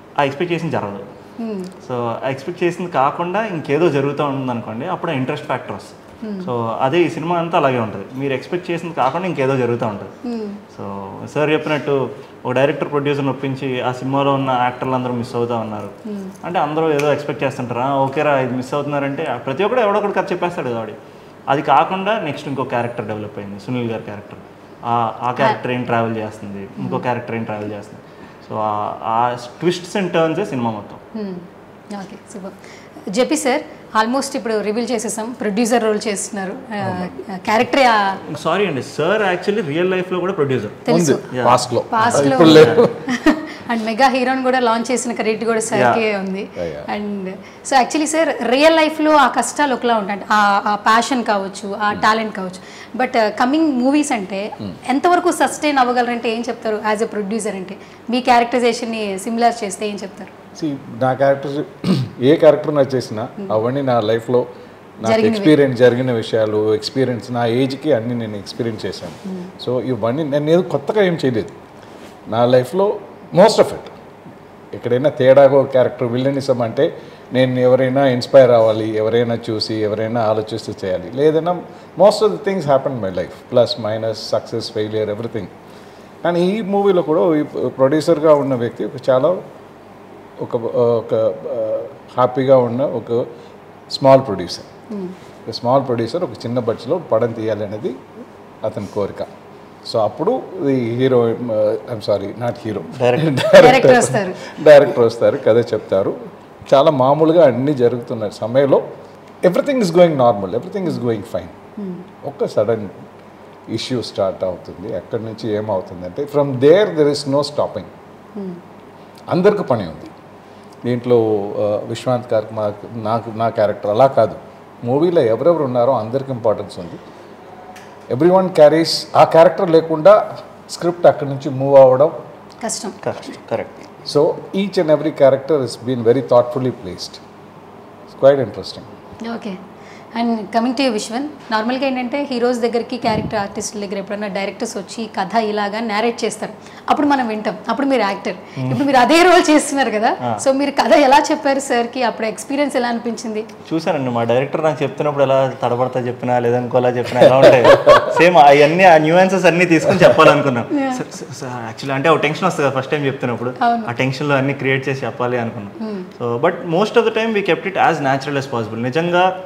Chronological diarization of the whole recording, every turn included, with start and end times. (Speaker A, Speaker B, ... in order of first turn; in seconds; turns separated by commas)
Speaker A: 0.2-1.1, Speaker B: 1.4-1.7, Speaker A: 1.8-10.1, Speaker B: 6.2-6.5, Speaker B: 10.2-10.6, Speaker A: 10.7-21.0, Speaker B: 16.1-16.3, Speaker A: 21.5-31.0, Speaker B: 31.1-32.5, Speaker B: 33.1-38.2, Speaker A: 38.2-42.9, Speaker B: 40.9-41.2, Speaker C: 40.9-42.9, Speaker B: 41.9-60.3, Speaker A: 45.7-46.0, Speaker C: 46.5-46.9, Speaker C: 60.5-64.5, Speaker C: 65.0-71.5, Speaker B: 65.0-65.5, Speaker C: 72.3-73.9, Speaker C: 74.7-85.5, Speaker C: 86.2-89.4, Speaker C: 90.4-93.2, Speaker C: 93.9-94.7, Speaker C: 95.5-98.0, Speaker C: 98.6-99.3, Speaker C: 99.8-108.8, Speaker A: 102.9-103.3, Speaker B: 103.5-104.4, Speaker C: 109.4-111.5, Speaker B: 111.8-112.0, Speaker C: 112.2-112.9, Speaker C: 113.7-117.9, Speaker B: 118.3-118.6, Speaker C: 119.3-120.1, Speaker C: 120.8-127.0, Speaker C: 128.1-132.2, Speaker B: 132.6-133.0, Speaker A: 133.0-133.8, Speaker C: 134.0-137.2, Speaker C: 138.1-138.9, Speaker B: 139.2-139.6, Speaker B: 140.1-153.5, Speaker A: 148.6-148.9, Speaker A: 153.7-169.3, Speaker C: 157.2-158.2, Speaker B: 160.7-161.1, Speaker B: 163.6-163.9, Speaker B: 165.8-166.1